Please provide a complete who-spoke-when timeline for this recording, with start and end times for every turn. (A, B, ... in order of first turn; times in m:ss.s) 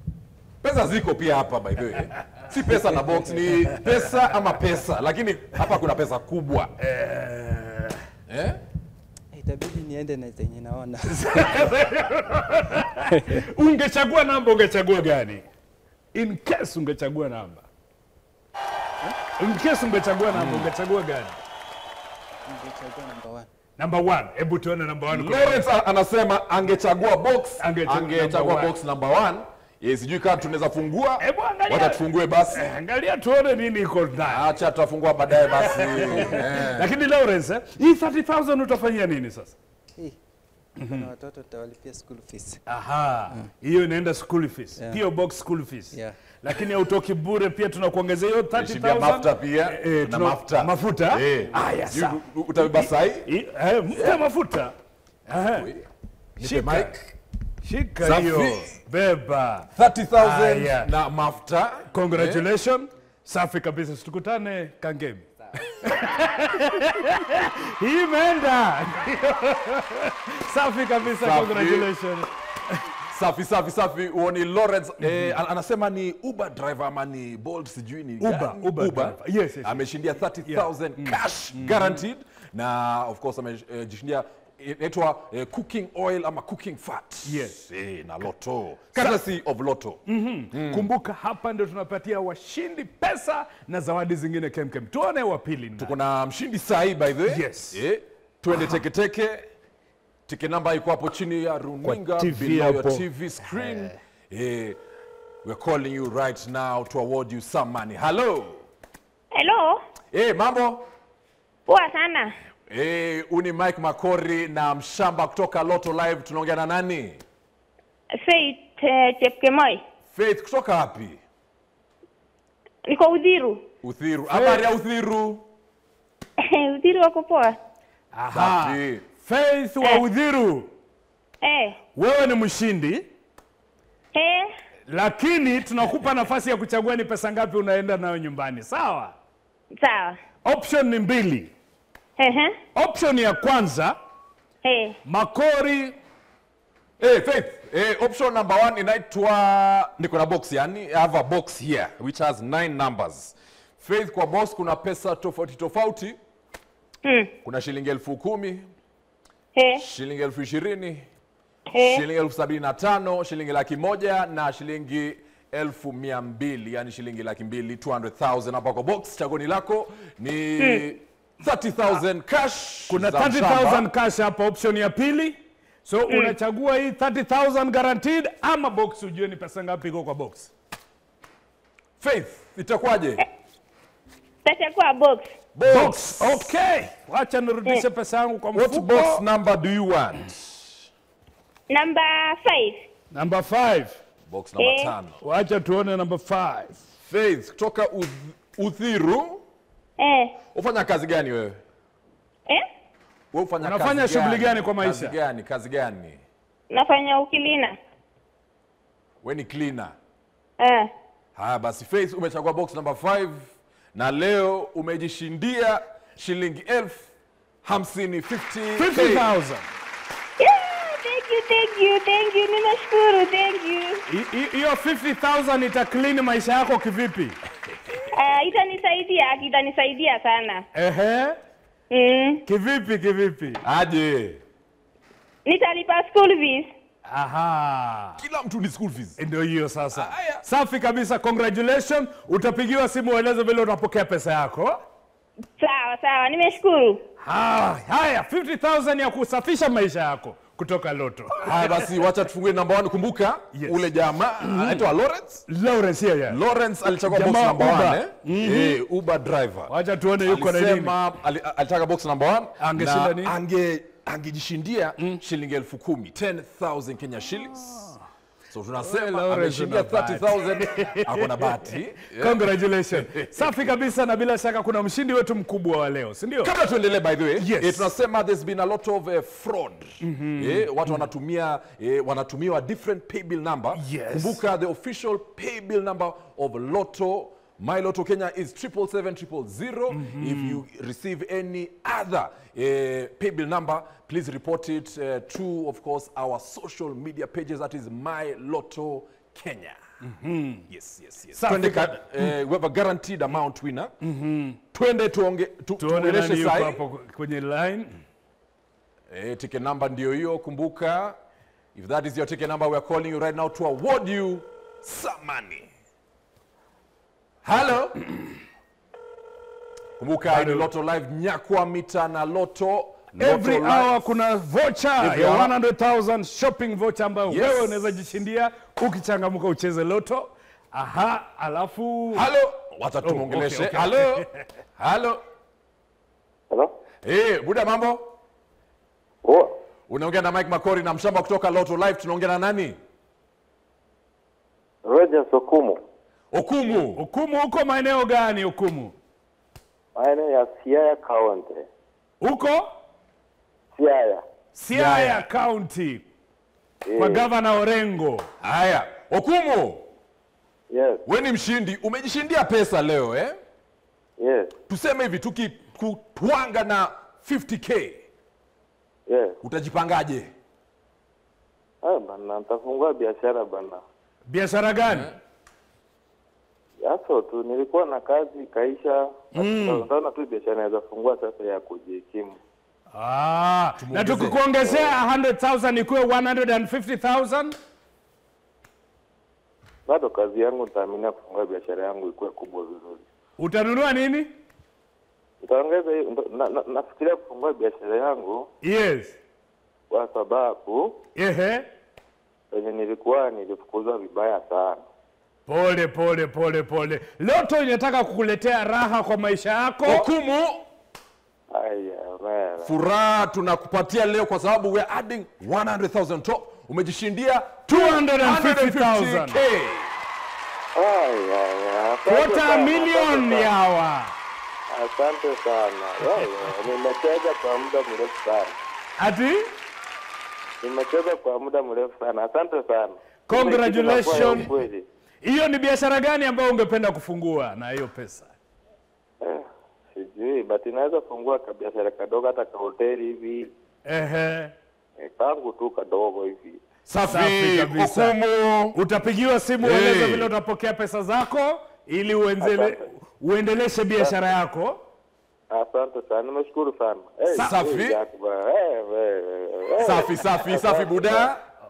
0:00.6-0:06.7 A
0:02.8-0:03.4 B
0:06.8-0:08.0 C
0:08.3-0:08.6 A
0:09.3-0:11.5 B
0:11.0-0:15.4 C
0:16.1-0:17.7 C
0:19.3-0:21.4 C
0:20.3-0:20.7 A
0:22.4-0:23.5 B
0:23.8-0:25.7 C
0:25.1-0:32.6 A
0:27.6-0:28.7 C
0:31.2-0:34.5 C
0:34.3-0:36.9 A
0:35.4-0:39.5 C
0:40.8-0:41.1 C
0:40.9-0:42.6 B
0:42.7-0:54.7 C
0:44.8-0:45.0 B
0:45.9-0:46.2 B
0:48.5-0:53.3 A
0:53.9-0:54.2 A
0:55.3-0:55.7 C
0:55.5-0:55.8 A
0:56.4-0:56.9 A
0:56.4-0:57.0 C
0:57.6-1:00.9 C
0:58.0-0:58.7 A
0:59.7-1:02.5 A
1:01.9-1:12.3 C
1:11.0-1:11.9 A
1:13.0-1:30.0 A
1:15.0-1:15.4 C
1:18.2-1:19.8 C
1:20.4-1:22.0 C
1:27.2-1:27.6 C
1:28.9-1:29.2 C
1:30.1-1:35.9 C
1:30.5-1:30.9 A
1:35.8-1:39.4 A
1:37.3-1:37.8 C
1:38.6-1:38.8 C
1:40.3-1:44.8 A
1:41.8-1:43.0 C
1:43.6-1:43.9 C
1:45.4-1:48.6 A
1:49.3-1:49.8 D
1:50.1-1:50.8 A
1:51.7-1:52.3 D
1:52.7-1:57.2 A
1:58.2-1:59.8 D
2:00.1-2:01.2 A
2:02.9-2:03.6 D
2:03.8-2:05.4 A
2:04.3-2:04.7 C
2:06.5-2:07.6 D
2:08.1-2:10.7 C
2:08.3-2:09.0 A
2:11.4-2:11.8 D
2:11.9-2:13.1 C
2:14.1-2:14.5 D
2:14.9-2:19.2 C
2:19.8-2:20.2 D
2:20.4-2:21.5 C
2:22.2-2:22.6 D
2:22.7-2:24.0 C
2:24.6-2:25.0 D
2:25.0-2:26.0 C
2:27.0-2:36.2 A
2:37.0-2:37.3 D
2:37.4-2:38.7 A
2:39.5-2:39.8 D
2:39.8-2:41.1 A
2:41.7-2:42.0 D
2:41.8-2:53.8 A
2:50.6-2:50.8 D
2:52.9-3:00.5 C
2:56.1-2:56.3 D
3:02.0-3:03.2 A
3:04.4-3:05.2 D
3:05.5-3:06.5 A
3:05.7-3:09.2 C
3:08.5-3:10.6 A
3:11.7-3:12.8 D
3:13.1-3:14.0 C
3:14.3-3:15.2 A
3:14.6-3:14.9 D
3:15.2-3:16.8 C
3:17.0-3:19.4 A
3:20.0-3:20.3 D
3:20.5-3:21.6 A
3:23.3-3:26.2 A
3:23.6-3:25.2 C
3:26.7-3:27.8 D
3:29.2-3:30.0 A
3:30.6-3:30.9 D
3:31.3-3:37.1 A
3:37.6-3:39.3 A
3:38.8-3:39.7 C
3:40.4-3:44.0 D
3:44.1-3:47.4 C
3:48.1-3:50.6 D
3:50.7-3:51.4 C
3:51.9-3:52.4 D
3:52.4-3:53.6 C
3:53.6-3:54.4 A
3:55.4-3:56.7 D
3:57.1-3:58.2 C
3:58.2-3:59.2 A
3:59.2-4:04.8 C
3:59.9-4:00.4 A
4:05.6-4:07.0 D
4:07.2-4:11.6 C
4:11.4-4:15.4 A
4:13.5-4:14.9 C
4:15.5-4:18.8 C
4:16.3-4:27.9 A
4:19.7-4:21.0 C
4:22.6-4:23.3 C
4:27.7-4:28.0 C
4:28.5-4:33.5 A
4:28.8-4:36.5 C
4:36.4-4:59.8 A
4:37.4-4:37.9 C
4:40.0-4:41.0 C
4:43.7-4:44.4 C
4:49.9-4:50.6 C
5:00.0-5:00.6 C
5:00.7-5:03.9 A
5:01.3-5:02.3 C
5:04.0-5:04.6 C
5:04.7-5:06.8 A
5:05.8-5:07.9 C
5:09.1-5:11.2 A
5:11.7-5:15.7 A
5:17.4-5:18.0 A
5:20.0-5:24.0 A
5:20.2-5:20.7 C
5:23.1-5:32.3 C
5:25.0-5:25.5 A
5:27.3-5:27.9 A
5:32.1-5:34.2 A
5:33.0-5:34.4 C
5:34.8-5:35.2 A
5:37.0-5:38.1 A
5:39.2-5:39.5 E
5:39.9-5:42.8 A
5:44.8-5:45.8 E
5:46.3-5:47.0 A
5:47.0-5:48.9 C
5:50.0-5:51.6 E
5:52.2-5:52.6 C
5:53.7-5:54.2 E
5:54.5-5:56.0 C
5:54.7-5:55.2 A
5:56.8-5:57.3 E
5:57.0-5:58.3 C
5:58.4-5:59.8 A
6:00.7-6:01.0 E
6:01.0-6:03.4 A
6:04.2-6:04.5 E
6:04.7-6:08.1 A
6:09.1-6:09.4 E
6:09.4-6:10.3 A
6:11.8-6:13.8 E
6:14.3-6:15.1 C
6:16.8-6:22.4 E
6:19.3-6:19.9 C
6:22.9-6:27.6 C
6:23.8-6:24.4 A
6:24.6-6:25.0 E
6:29.8-6:33.0 E
6:33.4-6:34.3 C
6:35.4-6:38.5 E
6:38.6-6:39.2 C
6:39.9-6:41.0 E
6:41.2-6:41.7 C
6:42.5-6:44.8 E
6:45.5-6:50.1 C
6:49.8-6:50.6 A
6:51.5-6:52.7 E
6:52.6-7:00.0 A
6:57.7-6:59.4 C
7:00.7-7:03.5 E
7:02.0-7:04.1 C
7:04.7-7:08.5 E
7:06.0-7:06.4 C
7:09.0-7:09.5 C
7:10.6-7:14.8 E
7:13.3-7:14.5 C
7:15.2-7:18.3 C
7:19.9-7:23.5 E
7:23.8-7:24.5 C
7:25.0-7:26.6 E
7:26.8-7:28.2 C
7:27.0-7:28.8 A
7:28.7-7:34.8 C
7:29.6-7:30.3 A
7:32.4-7:32.8 E
7:35.5-7:41.3 E
7:37.3-7:37.6 C
7:37.3-7:38.0 A
7:39.8-7:41.4 A